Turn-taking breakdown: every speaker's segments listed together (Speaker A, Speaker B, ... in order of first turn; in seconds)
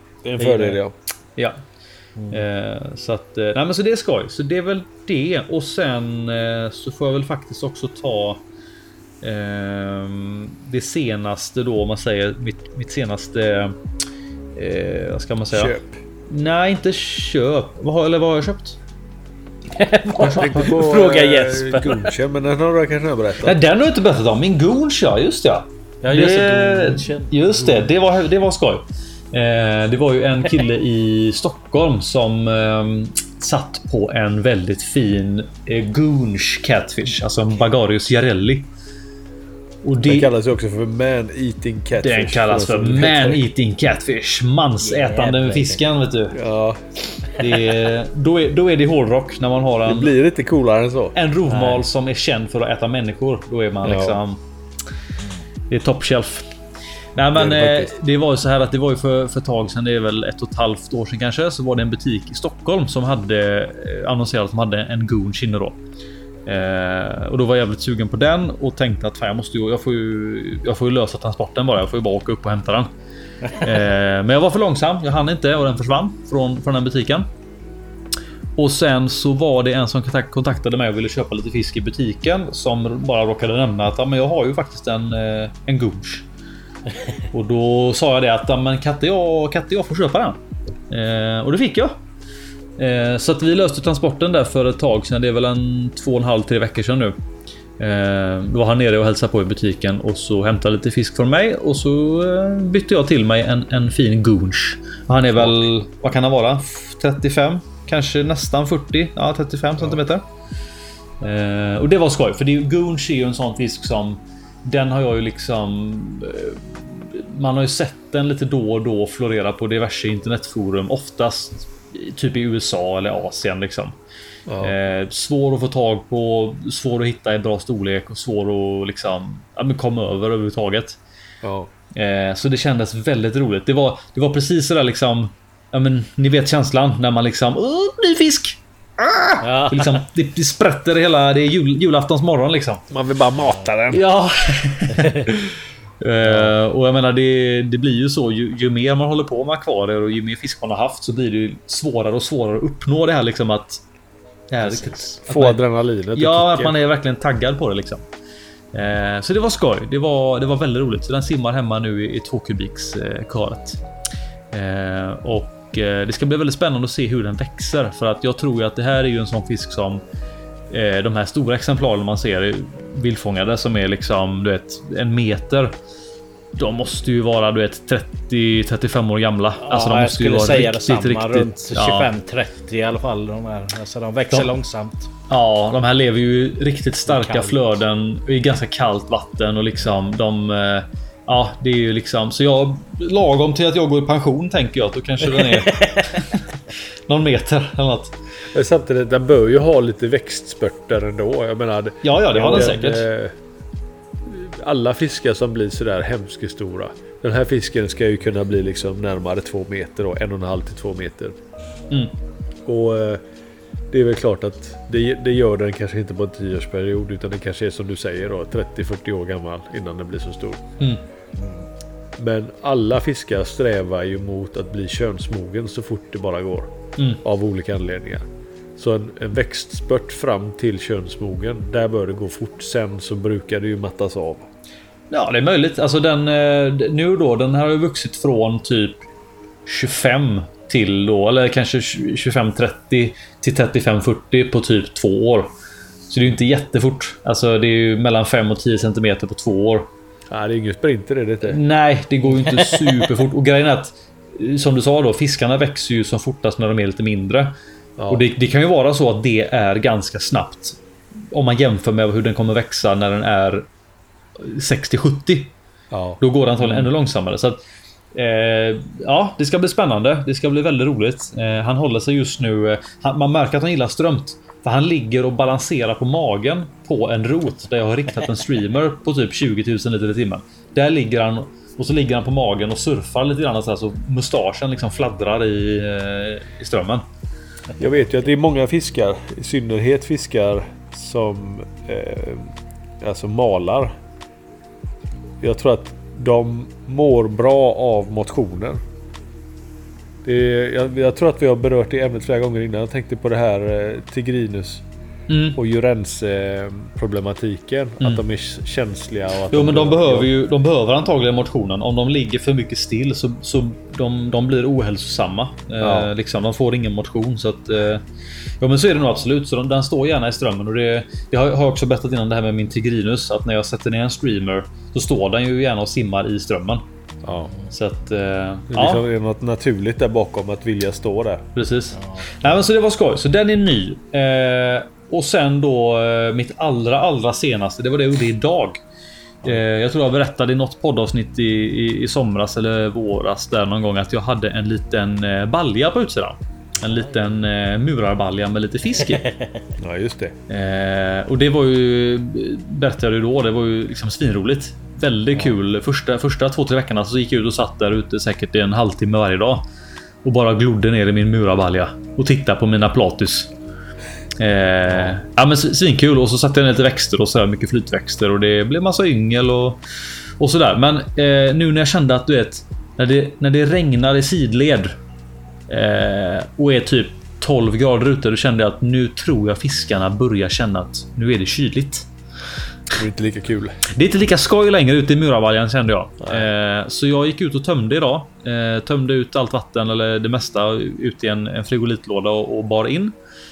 Speaker A: 0.2-0.9, 15.5-16.0, 20.2-23.6, 40.0-43.4, 46.3-46.8, 49.9-51.1, 53.8-54.2, 57.3-57.9, 105.3-105.7, 124.5-124.7, 131.4-131.7, 142.9-144.0, 155.3-156.8, 198.5-203.3, 204.2-211.3, 212.7-213.2, 213.9-220.6, 222.2-226.7, 227.2-228.2, 228.8-234.4, 250.3-251.6, 258.0-258.3, 265.9-266.9, 287.8-293.9, 295.4-298.8, 300.2-304.8, 305.5-310.3, 315.8-316.1, 327.2-327.5, 328.7-331.4, 349.8-350.3, 382.9-383.8, 386.2-386.5
Speaker B: 0.4-0.8, 2.2-2.4, 19.7-22.1, 26.0-27.9, 44.8-45.9, 51.5-51.9, 139.4-140.0, 144.9-145.3, 154.6-155.2, 179.6-185.1, 187.1-187.6, 195.3-196.3, 252.4-252.8, 331.9-332.5, 346.9-347.3, 349.1-349.5
Speaker C: 2.3-8.4, 9.2-13.8, 14.6-15.7, 16.3-18.8, 23.4-38.7, 39.8-40.3, 42.0-46.4, 47.4-50.1, 51.1-54.4, 55.7-56.5, 57.1-65.8, 66.5-72.9, 73.5-77.2, 78.6-86.2, 87.3-90.4, 90.9-91.9, 92.8-97.1, 97.8-110.2, 111.2-123.9, 124.6-131.0, 131.9-142.8, 143.9-153.8, 154.5-155.6, 156.1-158.0, 158.7-163.8, 164.5-170.0, 170.7-175.7, 176.6-182.1, 185.3-198.2, 202.0-203.1, 235.1-239.0, 239.7-245.5, 246.1-249.9, 251.4-257.6, 258.1-263.7, 264.4-265.5, 266.2-267.6, 268.1-287.0, 305.3-305.6, 309.5-318.0, 318.6-326.8, 327.7-329.0, 331.6-338.8, 339.4-349.2, 350.5-359.6, 360.2-363.5, 364.4-369.8, 370.4-374.9, 375.7-382.1, 383.9-393.1